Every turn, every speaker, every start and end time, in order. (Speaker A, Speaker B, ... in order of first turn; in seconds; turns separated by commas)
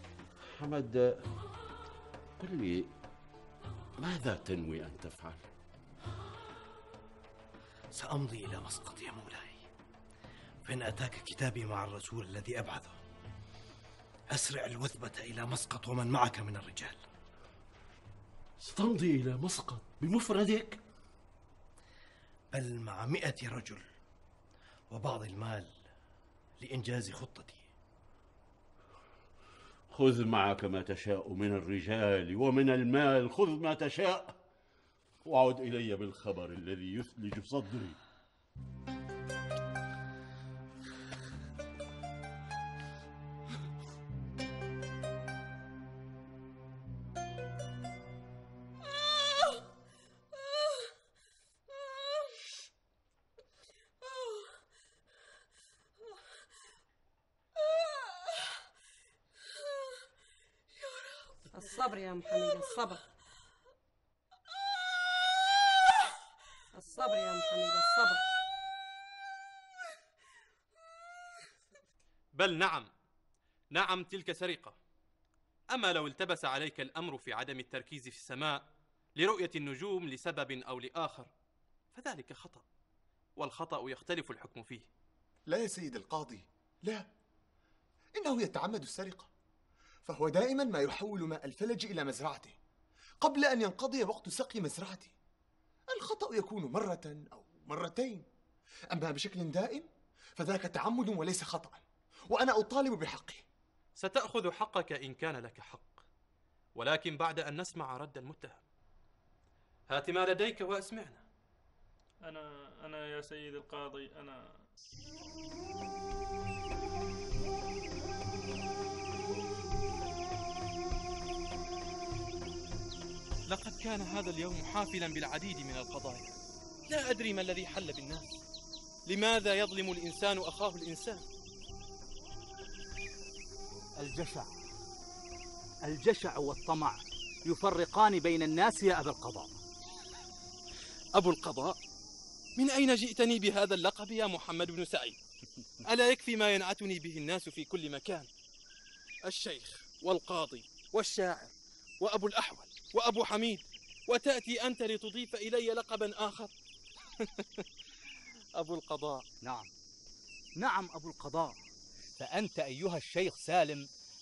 Speaker A: 0.4-1.2, Speaker A: 2.4-2.9, Speaker A: 4.0-5.5, Speaker B: 7.9-9.7, Speaker B: 10.6-13.0, Speaker B: 14.3-17.0, Speaker A: 18.6-20.8, Speaker B: 22.5-23.8, Speaker B: 24.9-25.7, Speaker B: 26.6-27.7, Speaker A: 29.9-34.4, Speaker A: 35.2-38.0, Speaker C: 61.5-63.0, Speaker C: 66.7-68.2, Speaker D: 72.3-72.9, Speaker D: 73.7-74.8, Speaker D: 75.7-78.6, Speaker D: 79.2-81.3, Speaker D: 81.9-82.7, Speaker D: 83.4-84.9, Speaker E: 85.5-87.1, Speaker E: 88.2-89.3, Speaker E: 90.0-92.5, Speaker E: 93.2-95.1, Speaker E: 95.9-98.2, Speaker E: 98.9-99.9, Speaker E: 100.4-103.4, Speaker D: 104.0-106.0, Speaker D: 106.8-108.6, Speaker D: 109.9-111.2, Speaker F: 112.2-114.6, Speaker D: 123.5-126.4, Speaker D: 126.9-128.4, Speaker D: 129.1-131.2, Speaker G: 134.0-134.5, Speaker G: 135.8-139.5, Speaker D: 141.2-141.8, Speaker D: 142.6-145.2, Speaker D: 145.8-148.3, Speaker D: 149.2-156.5, Speaker D: 157.2-157.6, Speaker D: 158.6-159.2, Speaker G: 159.4-159.7, Speaker G: 160.6-161.6, Speaker G: 162.2-163.8